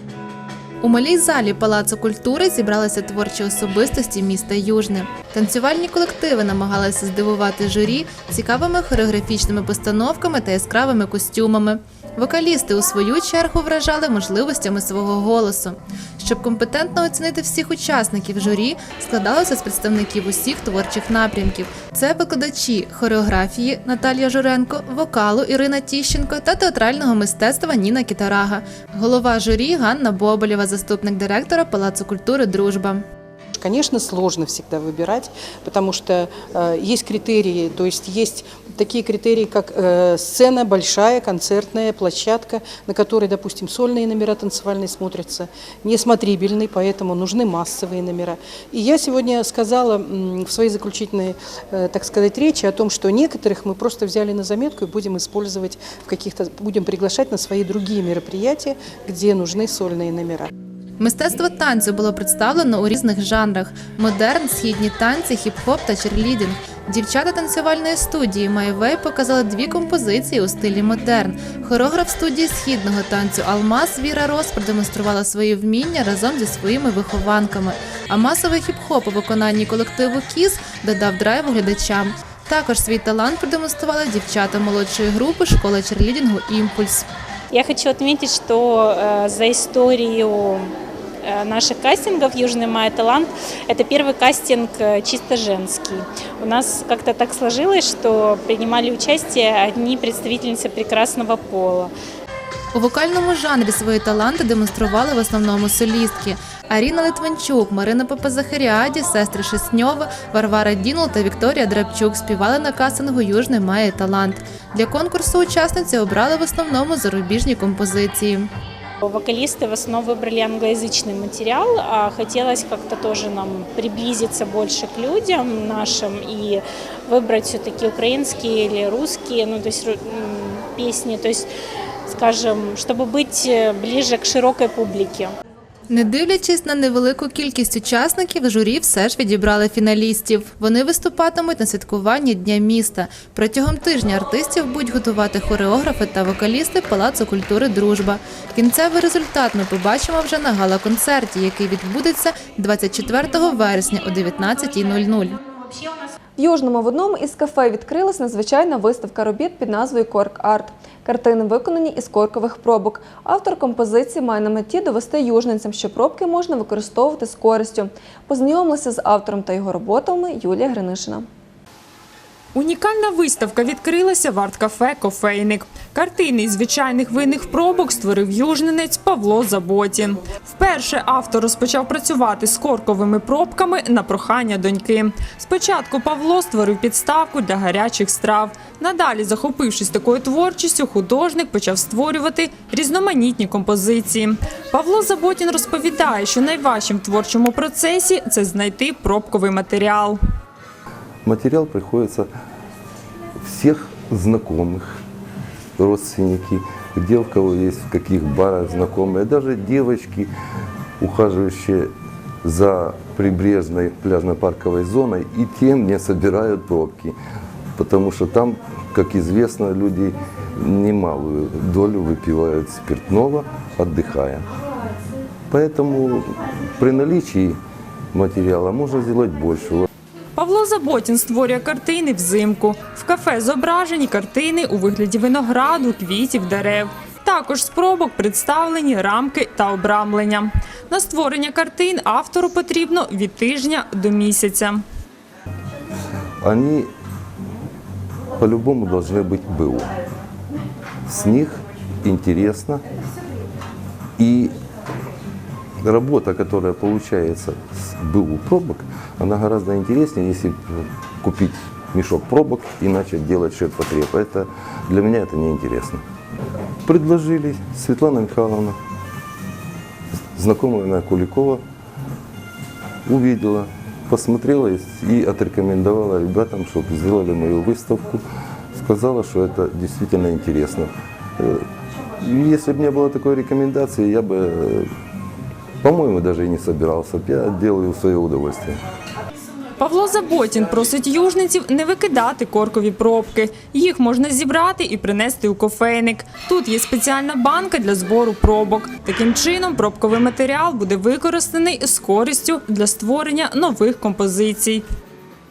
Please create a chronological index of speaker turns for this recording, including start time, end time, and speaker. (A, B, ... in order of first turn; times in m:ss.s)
0:00.8-0:33.0 A
0:33.6-1:00.5 B
1:01.0-1:27.0 A
1:27.5-1:41.9 C
1:42.7-1:58.5 A
1:59.0-2:11.5 C
2:12.1-2:15.3 C
2:15.9-2:35.4 A
2:35.4-2:36.1 C
2:36.4-2:51.2 D
2:52.5-3:20.2 E
3:21.2-3:22.3 F
3:23.4-3:25.0 F
3:25.8-3:30.3 F
3:31.0-3:31.9 F
3:32.4-3:37.1 F
3:37.8-3:44.4 F
3:45.5-3:47.6 F
3:48.1-3:49.8 F
3:50.3-4:04.8 E
4:06.4-4:06.9 F
4:08.4-4:09.9 F
4:11.1-4:12.8 F
4:14.2-4:14.5 F
4:15.8-4:26.0 F
4:26.8-4:28.8 F
4:30.4-4:31.6 F
4:33.0-4:38.2 F
4:38.7-4:41.6 F
4:42.2-4:44.9 F
4:45.8-4:48.8 F
4:49.8-5:04.8 E